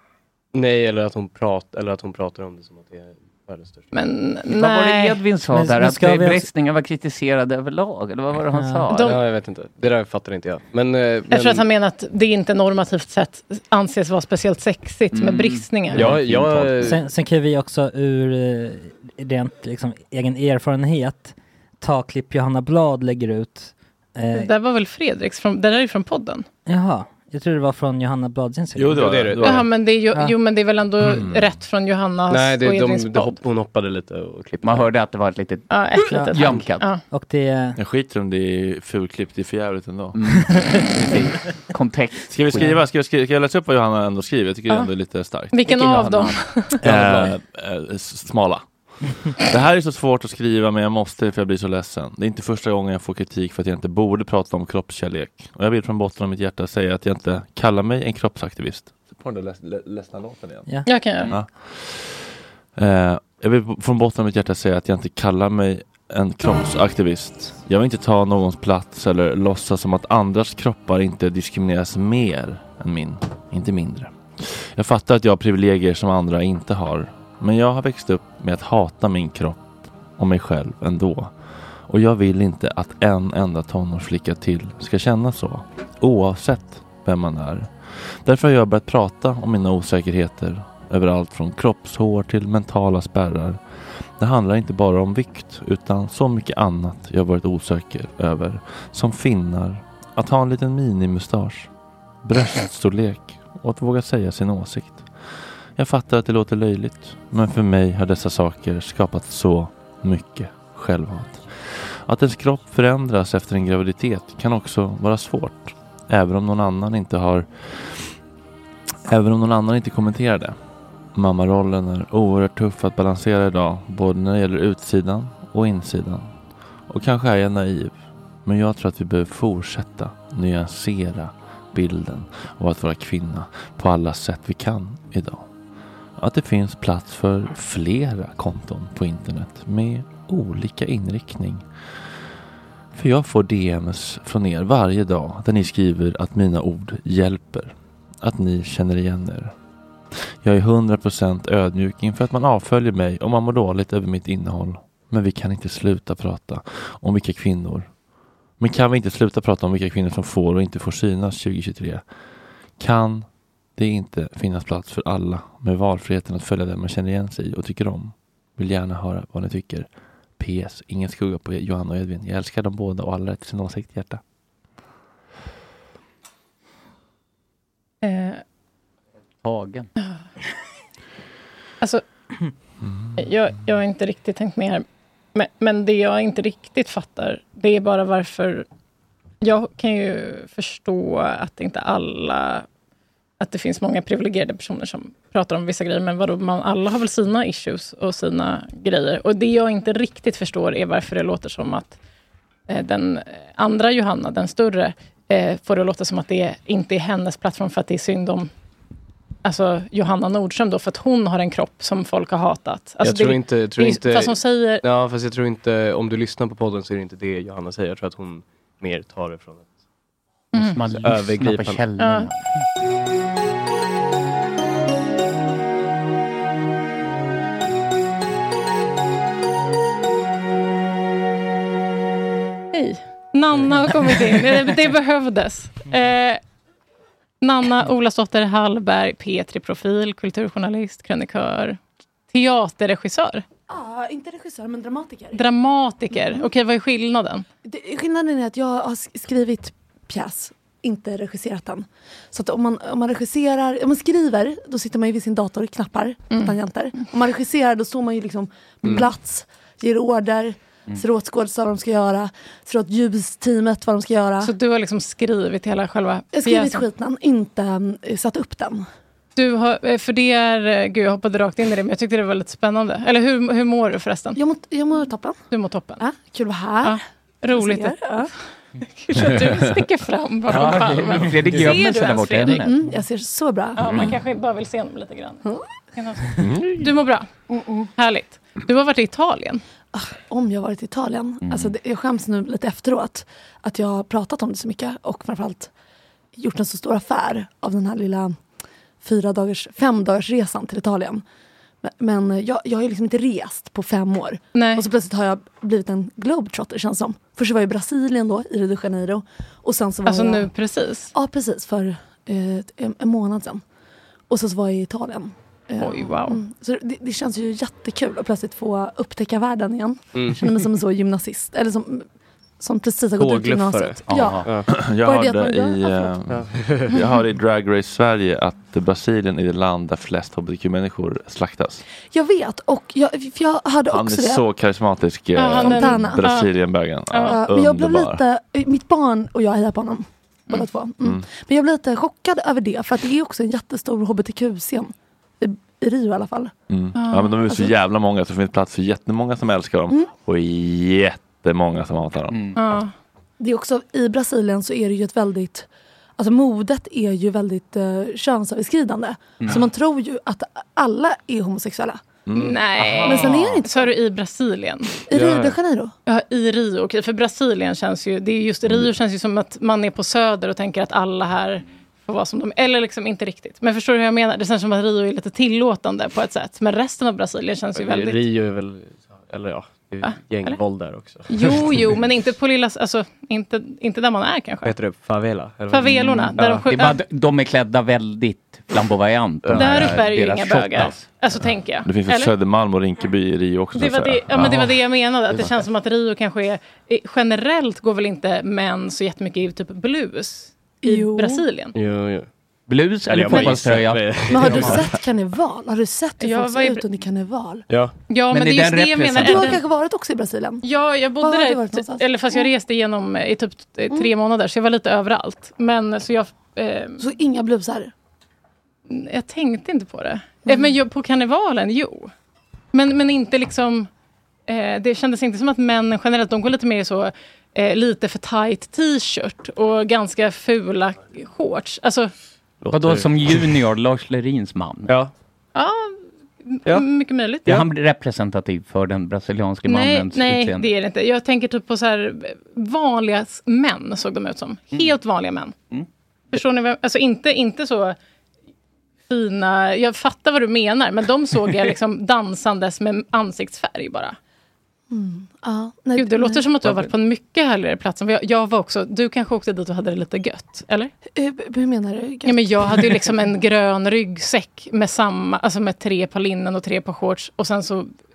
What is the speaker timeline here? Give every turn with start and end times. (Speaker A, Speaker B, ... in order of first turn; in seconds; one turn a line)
Speaker A: 0.5-3.9
Speaker B: 3.9-5.2
Speaker C: 4.5-9.2
Speaker D: 5.5-6.5
Speaker D: 8.5-8.9
Speaker B: 8.9-9.2
Speaker A: 9.1-11.7
Speaker B: 11.3-16.2
Speaker C: 15.1-15.7
Speaker A: 15.9-17.0
Speaker E: 16.1-16.7
Speaker D: 16.8-24.5
Speaker B: 24.3-26.4
Speaker D: 26.7-29.2
Speaker E: 28.8-29.7
Speaker A: 28.9-29.6
Speaker B: 29.4-33.4
Speaker E: 31.0-31.5
Speaker A: 32.3-34.9
Speaker C: 34.6-36.9
Speaker B: 35.7-37.0
Speaker D: 36.1-37.8
Speaker E: 37.8-40.2
Speaker C: 40.1-42.8
Speaker E: 42.3-45.5
Speaker B: 45.5-46.8
Speaker C: 45.6-46.4
Speaker E: 46.8-60.7
Speaker A: 46.8-47.4
Speaker B: 60.9-61.3
Speaker E: 61.3-81.3
Speaker E: 81.9-93.6
Speaker E: 94.2-101.7
Speaker E: 102.2-105.1
Speaker E: 105.8-118.1
Speaker E: 119.1-120.6
Speaker E: 121.2-126.3
Speaker E: 126.9-135.4
Speaker E: 136.2-141.7
Speaker E: 142.9-149.5
Speaker E: 150.4-157.9
Speaker E: 158.6-162.0
Speaker E: 162.8-163.3
Speaker E: 163.8-174.2
Speaker B: 178.0-178.4
Speaker C: 179.4-179.9
Speaker E: 182.8-183.2
Speaker B: 183.2-188.7
Speaker B: 189.4-192.7
Speaker B: 193.4-202.0
Speaker B: 202.7-208.5
Speaker B: 209.4-214.8
Speaker A: 213.0-219.7
Speaker B: 220.5-220.8
Speaker C: 220.5-222.3
Speaker A: 221.0-221.8
Speaker B: 222.0-222.3
Speaker B: 232.7-236.4
Speaker B: 237.4-241.8
Speaker B: 242.3-243.4
Speaker F: 243.7-245.4
Speaker B: 245.3-247.5
Speaker F: 246.1-246.5
Speaker F: 247.7-264.5
Speaker B: 256.3-256.6
Speaker B: 264.4-266.8
Speaker F: 266.3-268.9
Speaker B: 269.4-274.4
Speaker F: 274.4-275.4
Speaker B: 275.5-276.0
Speaker F: 276.0-277.0
Speaker B: 276.8-278.0
Speaker F: 277.5-278.3
Speaker B: 279.0-282.7
Speaker C: 280.5-282.7
Speaker F: 282.6-284.1
Speaker B: 283.8-289.6
Speaker C: 283.8-284.1
Speaker E: 286.4-286.8
Speaker F: 289.9-295.7
Speaker C: 291.4-291.7
Speaker F: 296.4-298.4
Speaker F: 299.0-301.2
Speaker F: 301.8-310.5
Speaker B: 304.5-304.8
Speaker B: 310.1-311.1
Speaker F: 311.1-313.6
Speaker F: 314.3-322.1
Speaker B: 315.8-316.4
Speaker A: 320.1-320.5
Speaker F: 322.6-324.5
Speaker A: 323.2-324.7
Speaker C: 324.1-324.4
Speaker E: 324.7-331.8
Speaker F: 325.0-326.1
Speaker A: 326.3-326.9
Speaker F: 332.1-334.4
Speaker E: 333.9-338.2
Speaker B: 335.4-336.5
Speaker F: 335.6-336.2
Speaker B: 337.1-337.4
Speaker F: 337.3-346.5
Speaker E: 346.7-352.4
Speaker B: 346.9-347.4
Speaker C: 352.3-352.6
Speaker B: 352.6-352.9
Speaker F: 353.4-355.7
Speaker F: 356.2-362.0
Speaker E: 362.3-363.6
Speaker B: 362.3-365.0
Speaker F: 363.1-363.9
Speaker F: 365.1-365.9
Speaker A: 365.1-365.6
Speaker B: 366.1-378.2
Speaker A: 377.8-382.0
Speaker B: 380.0-380.6
Speaker B: 381.3-384.8
Speaker A: 384.6-386.4
Speaker B: 385.7-387.0
Speaker C: 386.4-391.1
Speaker A: 389.4-390.0
Speaker B: 389.6-392.3
Speaker E: 391.8-395.5
Speaker B: 393.7-401.8
Speaker F: 400.8-401.4
Speaker A: 401.8-402.3
Speaker C: 402.7-404.8
Speaker A: 403.1-404.8
Speaker F: 404.3-407.6
Speaker B: 406.2-406.8
Speaker A: 407.7-407.9
Speaker B: 408.1-409.6
Speaker C: 408.3-409.6
Speaker F: 409.2-410.6
Speaker B: 410.6-417.0
Speaker F: 411.2-412.5
Speaker F: 417.0-417.9
Speaker B: 418.9-422.1
Speaker F: 420.5-420.7
Speaker B: 422.7-423.9
Speaker B: 424.5-432.1
Speaker A: 432.6-433.6
Speaker C: 432.7-434.9
Speaker A: 434.9-435.1
Speaker B: 435.6-437.6
Speaker C: 437.5-440.7
Speaker B: 439.6-445.6
Speaker B: 446.3-448.0
Speaker B: 449.1-454.2
Speaker F: 454.9-456.5
Speaker B: 456.0-460.9
Speaker F: 461.1-463.1
Speaker B: 462.2-467.9